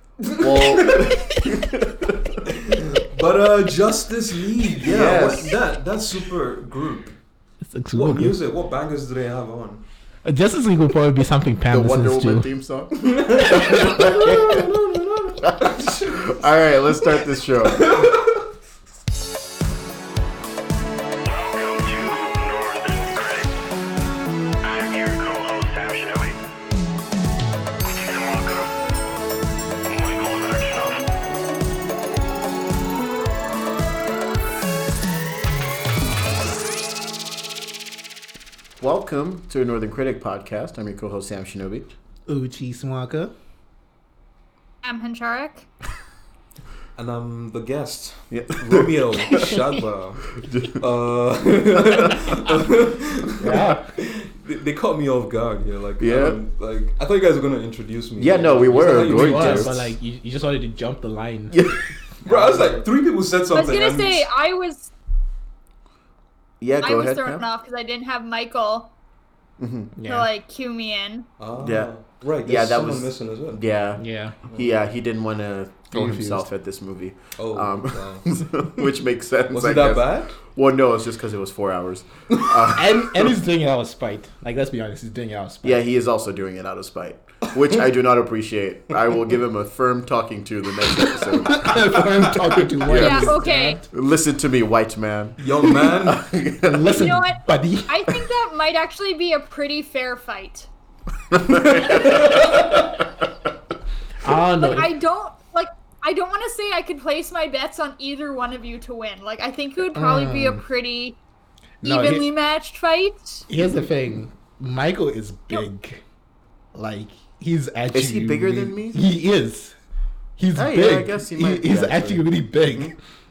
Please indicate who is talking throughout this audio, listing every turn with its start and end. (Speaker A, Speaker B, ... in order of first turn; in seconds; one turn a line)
Speaker A: 0.2-1.1
Speaker B: 0.3-2.4
Speaker A: 2.5-7.2
Speaker B: 4.8-5.6
Speaker C: 7.6-8.3
Speaker A: 7.9-9.8
Speaker C: 10.2-12.5
Speaker B: 11.7-14.7
Speaker A: 12.9-16.3
Speaker C: 13.9-14.4
Speaker B: 15.4-18.1
Speaker A: 17.6-18.4
Speaker D: 21.3-23.5
Speaker D: 24.6-26.3
Speaker D: 27.9-28.7
Speaker D: 29.9-31.0
Speaker B: 38.8-41.9
Speaker C: 42.3-43.3
Speaker E: 44.8-45.6
Speaker A: 47.0-59.9
Speaker B: 48.3-49.5
Speaker B: 50.4-50.8
Speaker B: 51.7-52.2
Speaker C: 53.4-53.9
Speaker B: 56.0-56.4
Speaker B: 58.2-59.8
Speaker C: 58.9-61.6
Speaker B: 61.5-62.8
Speaker A: 62.2-64.3
Speaker E: 63.5-64.9
Speaker B: 66.6-67.4
Speaker E: 66.8-68.9
Speaker B: 69.6-69.9
Speaker C: 70.0-70.3
Speaker E: 70.0-71.3
Speaker A: 71.4-73.6
Speaker B: 71.6-71.9
Speaker B: 72.4-83.3
Speaker C: 74.0-74.3
Speaker C: 75.9-76.5
Speaker A: 77.4-78.7
Speaker A: 79.5-80.3
Speaker C: 82.7-85.8
Speaker B: 85.6-92.0
Speaker C: 91.4-93.8
Speaker B: 92.8-97.1
Speaker E: 92.9-93.8
Speaker A: 95.4-96.2
Speaker C: 96.7-98.3
Speaker E: 96.9-100.7
Speaker B: 101.3-103.2
Speaker A: 101.9-102.8
Speaker C: 104.2-104.9
Speaker E: 104.6-111.2
Speaker C: 109.9-110.6
Speaker E: 111.8-113.4
Speaker C: 111.8-112.3
Speaker C: 113.5-116.0
Speaker C: 116.7-119.8
Speaker B: 117.9-119.0
Speaker C: 120.4-122.9
Speaker B: 120.5-122.9